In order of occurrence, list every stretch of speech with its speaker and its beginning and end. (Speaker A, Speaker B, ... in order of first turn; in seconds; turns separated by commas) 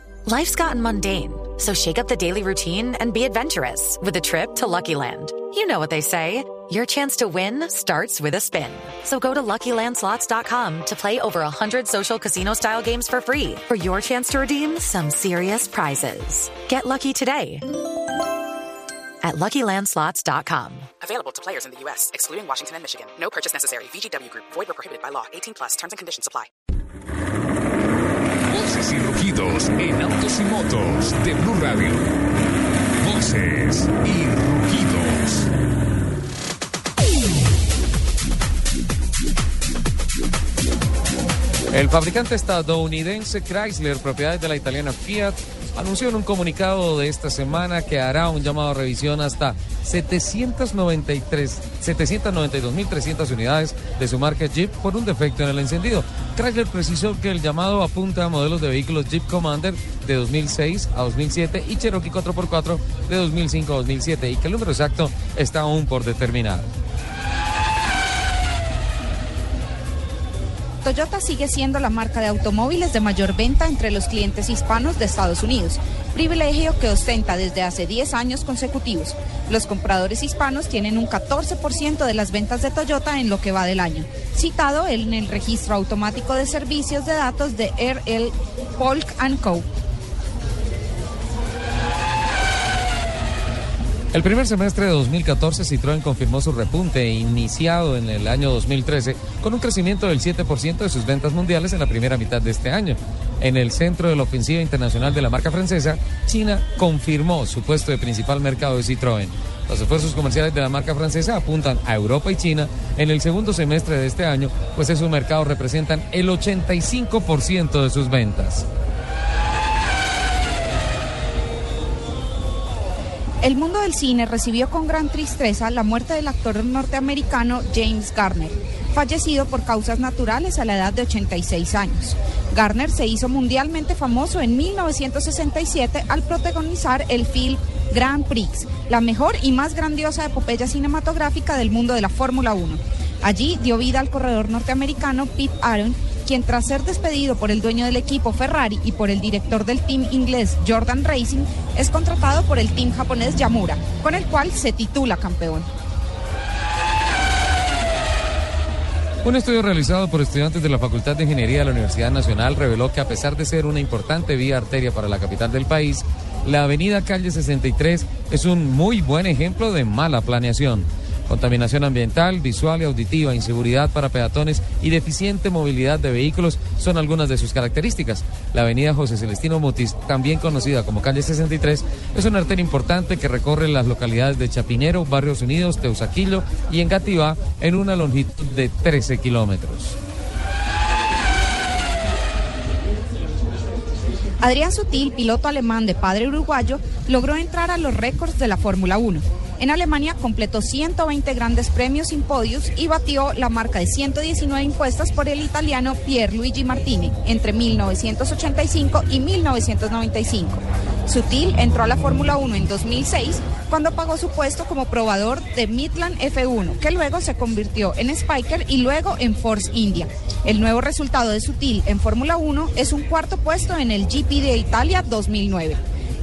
Speaker A: 0.3-17.7, Speaker A: 19.2-20.9, Speaker B: 21.0-26.5, Speaker C: 28.5-32.1, Speaker C: 33.0-35.5, Speaker D: 41.7-66.7, Speaker E: 70.8-89.7, Speaker D: 94.1-118.7, Speaker E: 123.4-155.7, Speaker D: 159.2-190.0, Speaker E: 194.4-225.8